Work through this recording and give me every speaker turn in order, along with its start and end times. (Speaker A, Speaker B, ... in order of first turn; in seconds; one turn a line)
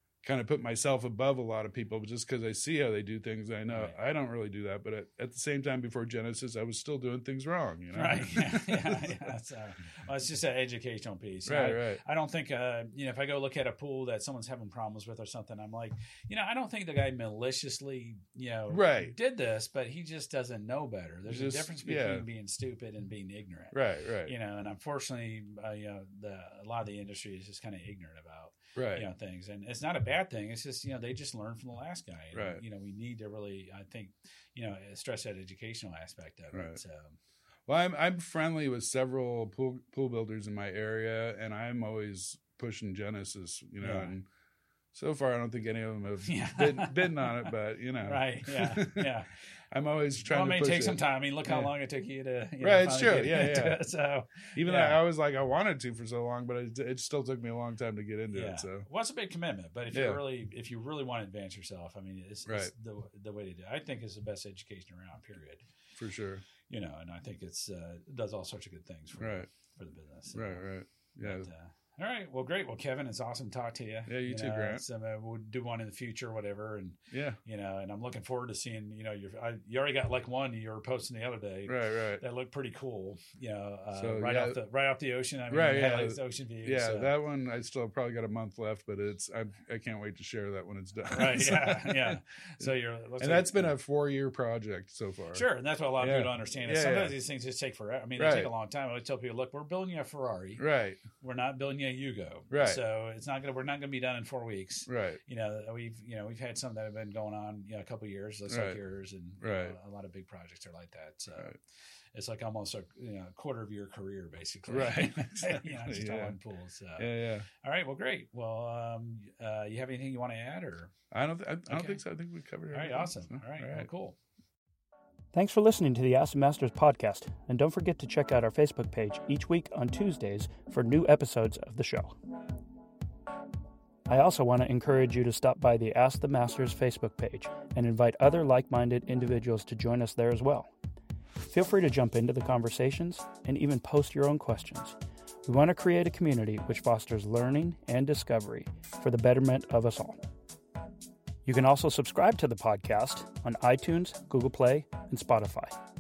Speaker A: 0.2-9.3
Speaker B: 3.7-4.0
Speaker B: 7.9-37.2
Speaker A: 11.5-12.0
Speaker A: 18.7-19.1
Speaker A: 21.3-22.2
Speaker A: 23.7-24.3
Speaker A: 28.8-29.1
Speaker A: 32.3-32.6
Speaker A: 36.5-36.8
Speaker A: 37.7-44.3
Speaker B: 43.8-44.1
Speaker A: 44.9-49.1
Speaker B: 46.2-49.3
Speaker A: 49.7-51.7
Speaker B: 50.2-55.0
Speaker A: 52.6-53.9
Speaker A: 54.5-58.9
Speaker B: 58.3-65.7
Speaker A: 59.9-60.2
Speaker A: 62.5-62.7
Speaker A: 66.0-66.4
Speaker B: 66.7-70.7
Speaker A: 69.2-69.5
Speaker A: 70.3-71.5
Speaker B: 71.2-87.1
Speaker A: 74.1-74.8
Speaker A: 77.1-77.4
Speaker A: 81.7-82.2
Speaker A: 84.0-84.6
Speaker A: 85.5-95.5
Speaker B: 91.1-93.7
Speaker B: 95.3-111.6
Speaker A: 96.0-97.2
Speaker A: 98.2-98.5
Speaker A: 100.6-101.0
Speaker A: 102.5-102.8
Speaker A: 104.9-105.2
Speaker A: 108.5-108.8
Speaker A: 109.4-109.8
Speaker B: 112.1-120.9
Speaker A: 114.7-116.3
Speaker A: 117.0-117.5
Speaker A: 121.1-123.9
Speaker B: 121.7-122.0
Speaker B: 122.7-124.2
Speaker C: 125.3-132.2
Speaker C: 134.1-140.7
Speaker C: 141.4-150.2
Speaker C: 151.4-155.8